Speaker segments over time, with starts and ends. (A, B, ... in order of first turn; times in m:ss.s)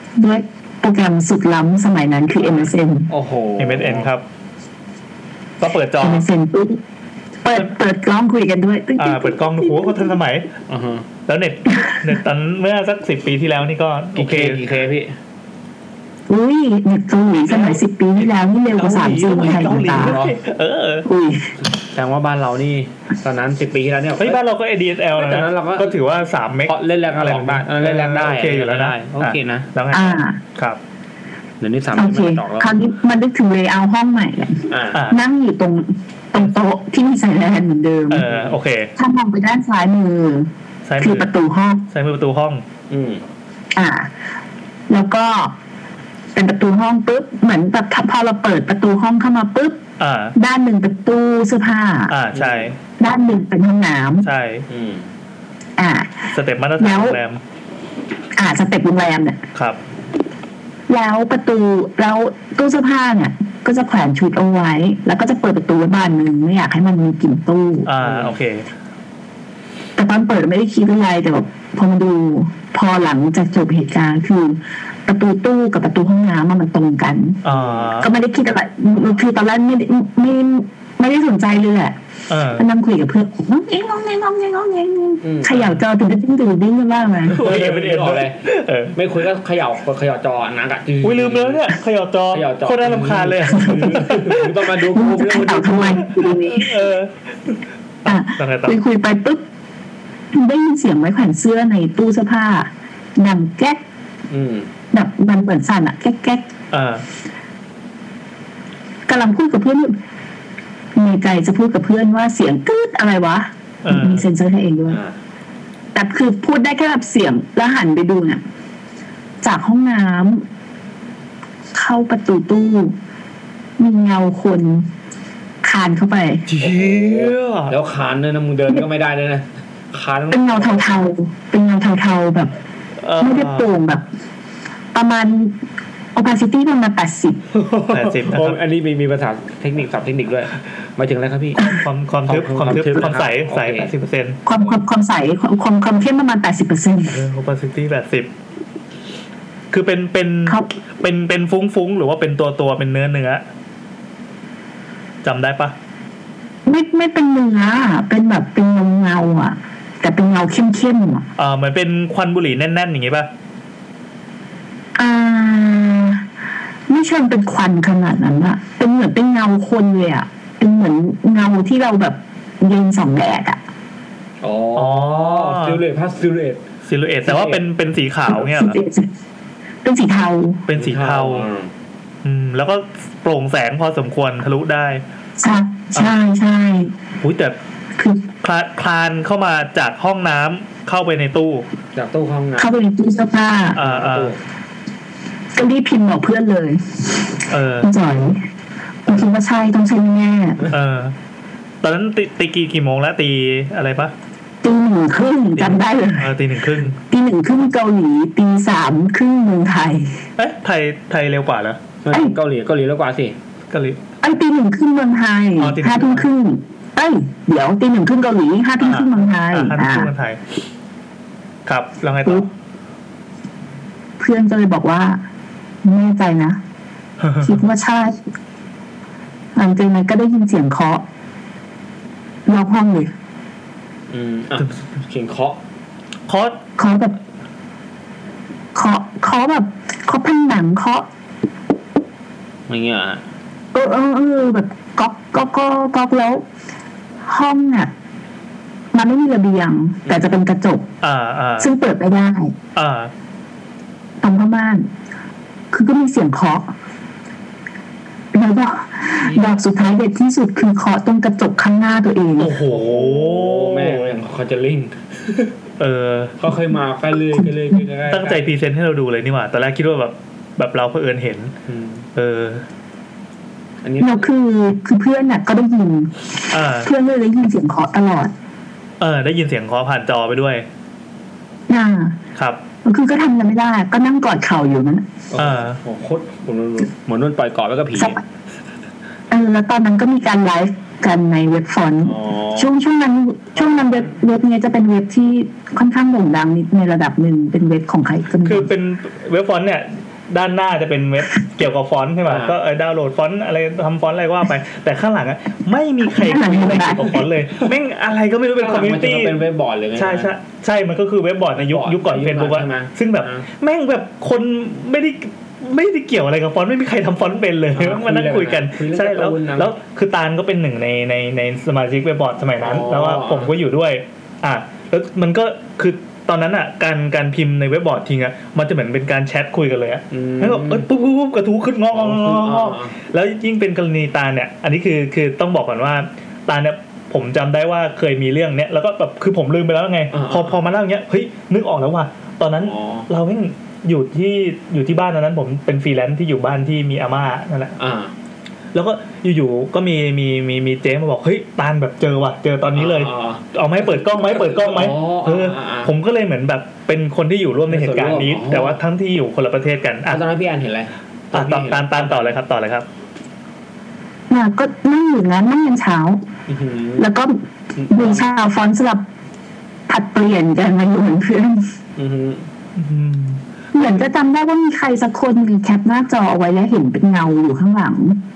0:00.2-0:03.1 A
0:03.1-0:04.1 B
0:03.6-0:04.2 C
0:05.6-0:06.3 C
0:06.0-0:06.8 A
0:07.4-0:10.2 A
0:09.0-0:10.5 C
0:10.7-0:11.0 B
0:11.3-0:14.6 C
0:14.1-0:15.2 B
0:16.3-0:20.2 A
0:17.4-0:21.1 C
0:20.0-0:20.4 B
0:21.0-0:21.5 A
0:21.6-0:24.4 B
0:24.2-0:30.8 C
0:25.1-0:25.9 B
0:26.6-0:29.7 B
0:29.9-0:30.4 A
0:31.6-0:32.7 B
0:31.9-0:38.3 A
0:34.7-0:35.0 B
0:34.9-0:35.2 C
0:38.1-0:38.9 C
0:38.2-0:38.6 B
0:39.0-0:41.8 A
0:40.8-0:41.3 C
0:41.9-0:42.6 C
0:42.9-0:43.2 B
0:43.7-0:44.1 A
0:44.9-0:45.5 A
0:46.3-0:49.8 A
0:50.0-0:50.3 C
0:50.3-0:52.1 A
0:52.1-0:52.8 C
0:52.3-0:52.7 B
0:53.0-0:54.3 A
0:54.2-0:54.6 C
0:54.7-0:55.0 B
0:55.8-0:56.2 A
0:56.3-0:57.4 C
0:56.8-0:57.2 A
0:58.4-0:59.4 A
1:00.9-1:07.9 A
1:07.8-1:08.7 C
1:08.0-1:08.4 B
1:10.0-1:17.4 A
1:17.4-1:18.1 C
1:17.5-1:17.9 B
1:18.0-1:22.0 A
1:22.3-1:22.6 C
1:22.5-1:27.4 A
1:25.2-1:25.5 B
1:25.5-1:25.8 C
1:27.3-1:28.4 B
1:27.3-1:28.9 C
1:28.9-1:31.7 B
1:31.0-1:34.5 C
1:32.3-1:36.1 B
1:33.6-1:34.0 A
1:34.9-1:36.8 A
1:36.1-1:38.8 C
1:38.0-1:39.4 A
1:40.3-1:43.8 A
1:44.3-1:44.7 B
1:44.9-1:46.5 A
1:46.7-1:47.0 C
1:49.1-1:50.0 A
1:50.9-1:55.0 A
1:53.8-1:54.2 C
1:54.9-1:55.2 B
1:55.9-1:58.4 A
1:59.4-2:00.4 A
2:01.7-2:02.9 A
2:03.8-2:04.9 A
2:05.6-2:06.4 A
2:06.5-2:07.7 C
2:06.6-2:10.9 B
2:10.3-2:12.5 A
2:13.0-2:13.7 C
2:13.2-2:14.0 A
2:14.9-2:15.5 A
2:16.1-2:17.4 A
2:17.5-2:18.6 C
2:17.8-2:21.7 B
2:21.7-2:24.4 C
2:22.2-2:23.9 B
2:24.4-2:27.2 A
2:27.1-2:28.3 C
2:29.7-2:33.4 C
2:35.2-2:35.7 C
2:36.6-2:41.2 A
2:41.4-2:43.3 C
2:45.0-2:46.2 A
2:46.9-2:53.6 A
2:54.4-2:56.6 B
2:54.8-2:55.8 C
2:56.8-2:58.8 C
2:57.2-2:57.6 B
2:58.3-2:59.1 A
2:59.8-3:00.6 A
3:00.7-3:01.5 C
3:00.7-3:01.7 B
3:02.2-3:05.0 C
3:05.4-3:06.9 A
3:07.2-3:07.6 C
3:08.0-3:08.3 A
3:08.4-3:11.7 C
3:11.9-3:12.7 B
3:12.6-3:13.8 A
3:13.7-3:14.3 C
3:13.8-3:14.4 B
3:15.5-3:18.4 A
3:17.5-3:17.9 C
3:19.0-3:20.6 A
3:20.7-3:21.2 C
3:21.8-3:24.1 C
3:24.6-3:26.3 A
3:25.5-3:27.0 C
3:27.0-3:30.2 A
3:30.4-3:31.8 C
3:32.0-3:33.4 B
3:33.7-3:34.0 C
3:34.2-3:40.1 A
3:35.6-3:36.3 C
3:38.8-3:40.4 C
3:41.6-3:42.5 C
3:44.2-3:45.2 A
3:45.8-3:46.6 A
3:47.2-3:47.6 C
3:47.4-3:48.2 A
3:49.5-3:51.0 A
3:52.4-3:53.1 A
3:54.1-3:55.6 B
3:56.3-3:56.6 C
3:56.8-3:57.2 A
3:58.7-4:01.0 A
4:02.7-4:03.2 B
4:03.7-4:06.4 A
4:07.2-4:07.9 A
4:08.9-4:10.9 A
4:10.0-4:10.4 B
4:11.0-4:11.7 C
4:11.6-4:12.6 A
4:12.7-4:13.1 C
4:14.2-4:14.9 A
4:15.7-4:16.7 A
4:18.3-4:22.5 A
4:19.2-4:19.6 B
4:22.4-4:24.2 C
4:22.6-4:25.5 B
4:25.8-4:26.4 C
4:26.4-4:28.5 B
4:28.1-4:31.5 C
4:31.7-4:32.0 B
4:32.1-4:32.6 C
4:33.8-4:34.3 B
4:34.0-4:38.3 A
4:36.5-4:36.9 C
4:39.0-4:40.6 C
4:41.7-4:42.2 A
4:42.4-4:42.6 C
4:42.8-4:45.0 A
4:45.3-4:48.2 B
4:45.4-4:45.8 C
4:47.9-4:48.2 A
4:49.3-4:58.7 A
4:52.0-4:52.7 B
4:53.6-4:54.2 B
4:58.4-5:09.4 C
5:02.2-5:02.6 B
5:06.1-5:07.1 A
5:08.6-5:10.3 B
5:10.0-5:47.7 C
5:11.6-5:13.4 B
5:17.7-5:19.7 B
5:22.6-5:23.5 B
5:30.1-5:30.9 B
5:31.9-5:32.9 B
5:40.1-5:40.6 B
5:42.6-5:43.1 B
5:47.8-5:48.1 B
5:48.7-6:00.2 C
5:52.7-5:55.9 B
5:57.7-5:58.8 B
6:00.1-6:02.4 B
6:01.3-6:02.9 C
6:04.3-6:06.2 A
6:06.5-6:07.1 B
6:07.0-6:07.4 A
6:07.8-6:08.2 B
6:07.9-6:09.0 A
6:09.9-6:11.7 A
6:12.0-6:12.5 B
6:12.8-6:13.4 C
6:13.7-6:18.2 A